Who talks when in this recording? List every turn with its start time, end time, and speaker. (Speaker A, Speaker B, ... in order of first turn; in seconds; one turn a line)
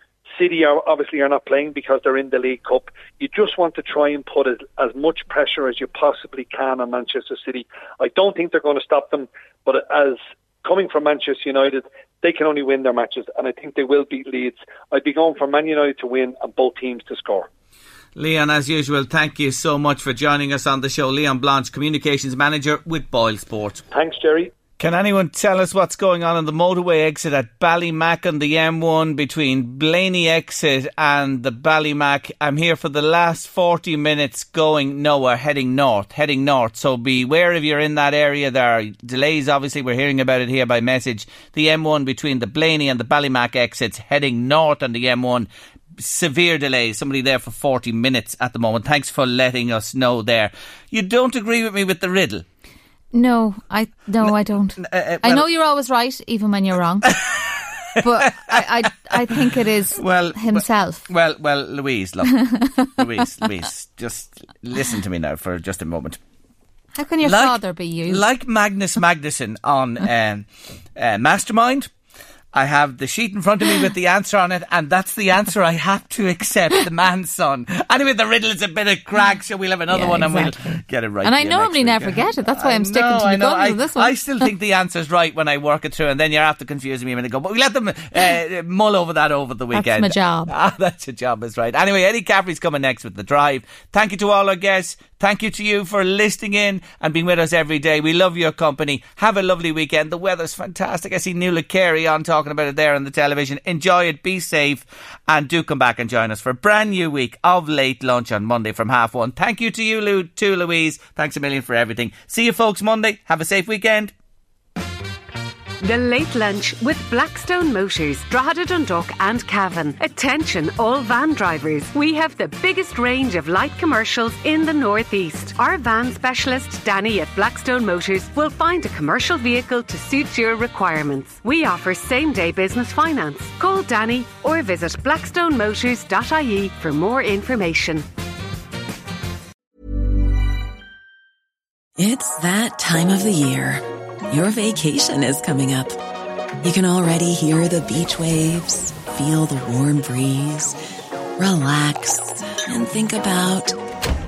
Speaker A: 0.3-17.5
Speaker B: 18.2-23.8
Speaker A: 23.9-24.5
Speaker B: 24.8-52.5
Speaker C: 53.1-57.3
Speaker B: 54.2-55.5
Speaker B: 57.1-59.4
Speaker C: 58.0-61.0
Speaker B: 59.9-62.4
Speaker C: 62.5-62.9
Speaker B: 63.0-66.2
Speaker C: 67.0-68.2
Speaker B: 67.2-71.9
Speaker B: 72.5-114.1
Speaker C: 79.9-80.5
Speaker C: 81.2-84.3
Speaker C: 89.7-90.5
Speaker D: 115.8-138.1
Speaker E: 142.0-146.0
Speaker E: 146.6-150.8
Speaker E: 151.4-153.8